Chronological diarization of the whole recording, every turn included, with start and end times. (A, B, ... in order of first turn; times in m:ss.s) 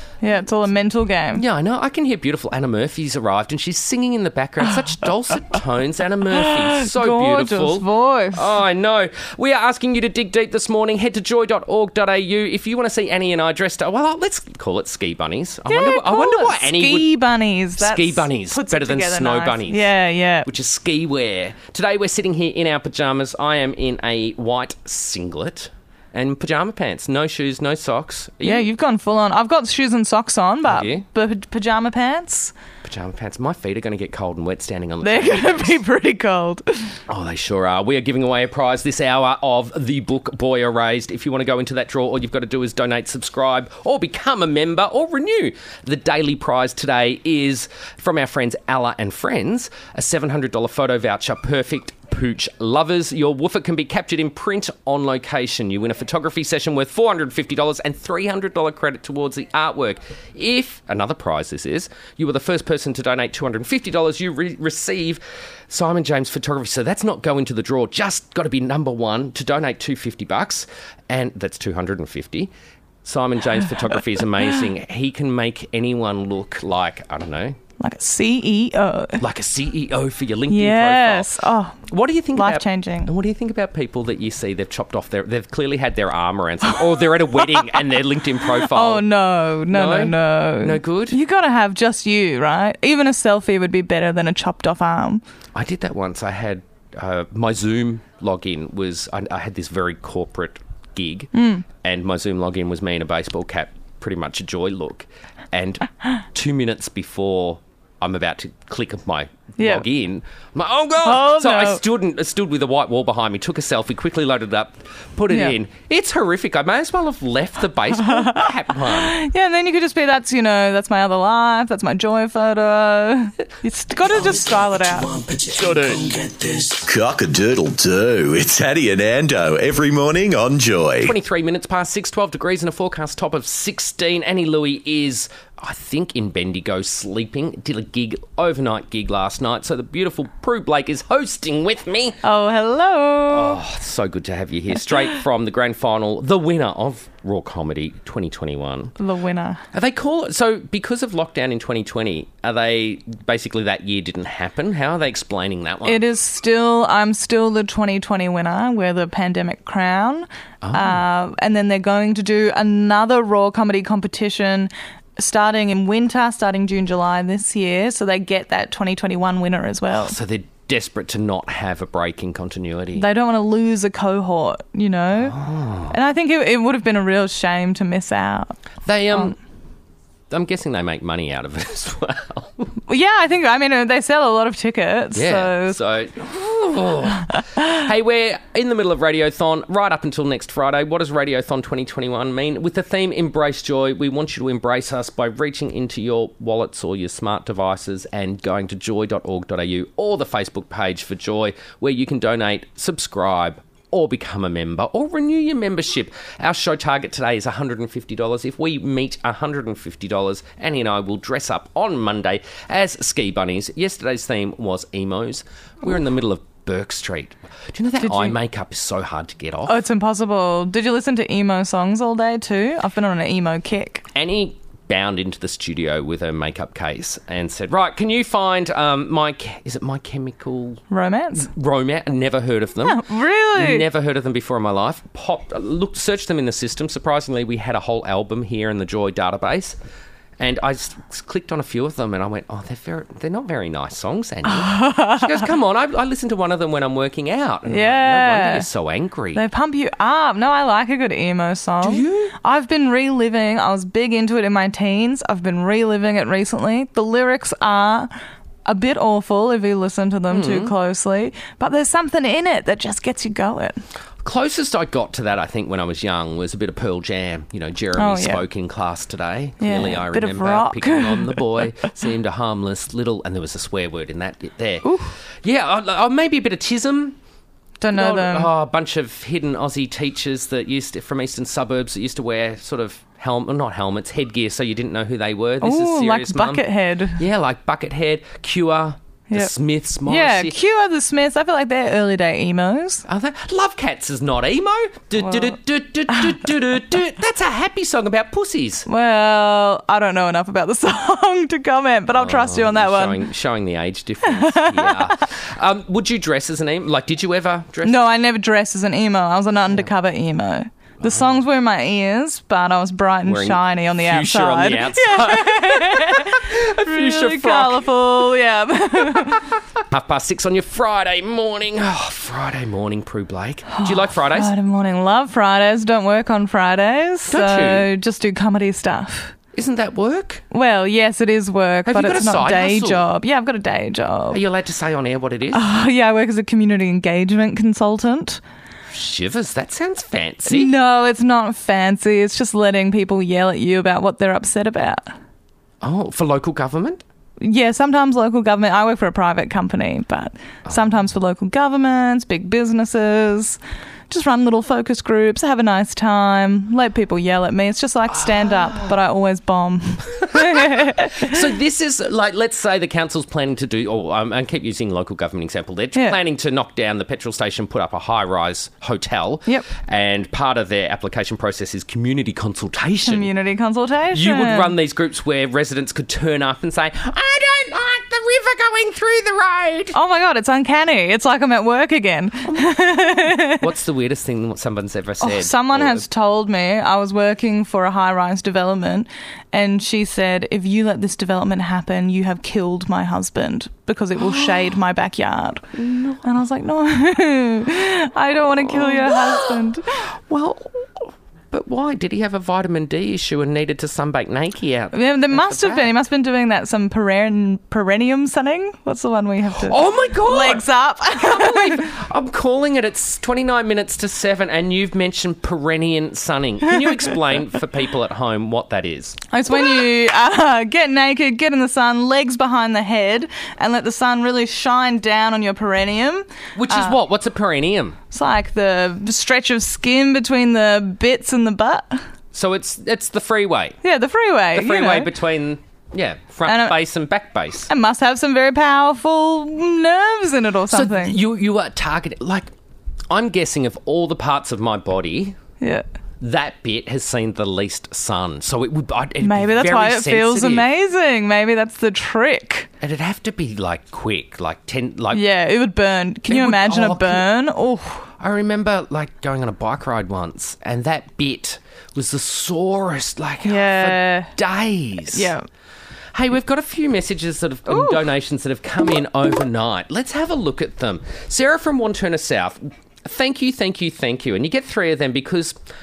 0:00.2-0:01.4 A
0:01.3-0:17.2 B
0:06.3-0:08.5 A
0:15.7-0:20.5 A
0:17.8-0:19.9 B
0:20.4-0:28.7 B
0:28.4-0:32.5 A
0:30.7-0:31.1 B
0:32.8-0:35.8 B
0:35.0-0:37.0 A
0:37.1-1:12.5 B
1:13.0-1:17.6 B
1:17.8-1:19.2 A
1:19.2-1:21.3 B
1:20.5-1:23.1 A
1:21.9-1:29.1 B
1:28.5-1:35.2 A
1:29.7-1:31.2 B
1:35.5-1:59.2 B
1:41.3-1:41.6 A
1:49.6-1:49.8 A
1:51.0-1:51.8 A
1:55.3-1:55.6 A
1:58.0-2:05.1 A
2:04.1-2:11.2 C
2:11.0-2:22.2 B
2:22.2-2:23.6 A
2:23.3-2:28.9 B
2:29.0-2:29.6 A
2:29.7-2:36.0 B
2:35.8-2:50.2 A
2:40.6-2:41.0 B
2:49.9-2:53.1 B
2:53.0-2:55.4 A
2:55.2-2:56.0 B
2:55.9-2:58.6 A
2:58.8-2:59.4 B
3:00.3-3:02.7 B
3:02.9-3:05.8 A
3:05.1-3:39.8 B
3:38.0-3:38.4 A
3:39.7-3:44.1 A
3:44.2-3:50.8 B
3:50.9-3:51.5 A
3:51.4-3:59.8 B
3:52.8-3:53.9 A
4:00.4-4:09.4 B
4:04.5-4:05.4 A
4:07.7-4:08.7 A
4:09.3-4:18.1 A
4:11.8-4:12.4 B
4:18.7-4:23.8 A
4:20.3-4:20.7 B
4:24.2-4:34.9 B
4:28.0-4:28.4 A
4:29.6-4:31.6 A
4:34.8-4:35.1 A
4:35.4-4:37.2 B
4:37.8-4:38.5 A
4:37.9-4:46.6 B
4:45.6-4:47.2 A
4:47.2-4:50.6 B
4:50.1-4:53.0 A
4:53.1-4:58.9 B
4:58.9-5:03.2 A
5:02.1-5:08.1 B
5:04.4-5:05.3 A
5:07.8-5:19.5 A
5:11.0-5:11.4 B
5:13.2-5:17.9 B
5:19.1-5:24.5 B
5:23.7-5:29.4 A
5:27.3-5:27.9 B
5:29.5-5:30.4 B
5:30.5-5:34.4 A
5:31.9-5:33.1 B
5:34.3-5:35.6 B
5:35.5-5:38.4 A
5:38.9-5:40.7 B
5:40.4-5:45.1 A
5:45.8-5:47.0 B
5:47.4-5:53.6 A
5:54.1-6:01.4 A
5:58.2-5:58.9 B
6:00.2-6:13.3 B
6:13.0-6:14.7 A
6:14.1-6:20.0 B
6:19.9-6:23.7 A
6:22.5-6:26.0 B
6:25.2-6:39.9 A
6:35.7-6:36.2 B
6:38.6-6:45.9 B
6:44.9-6:51.9 A
6:49.5-6:59.9 B
6:59.3-7:07.0 A
7:06.6-7:08.0 B
7:08.1-7:12.0 A
7:12.3-7:13.8 B
7:13.8-7:15.1 A
7:14.5-7:17.7 B
7:16.5-7:16.8 A
7:17.7-7:21.2 A
7:20.7-7:22.5 B
7:23.1-7:25.4 B
7:26.2-7:30.7 B
7:29.2-7:32.7 A
7:32.8-7:35.2 B
7:35.1-7:38.1 A
7:36.3-7:37.3 B
7:38.2-7:45.3 B
7:43.4-7:44.3 A
7:45.1-7:45.4 A
7:46.1-7:55.6 B
7:47.7-7:48.0 A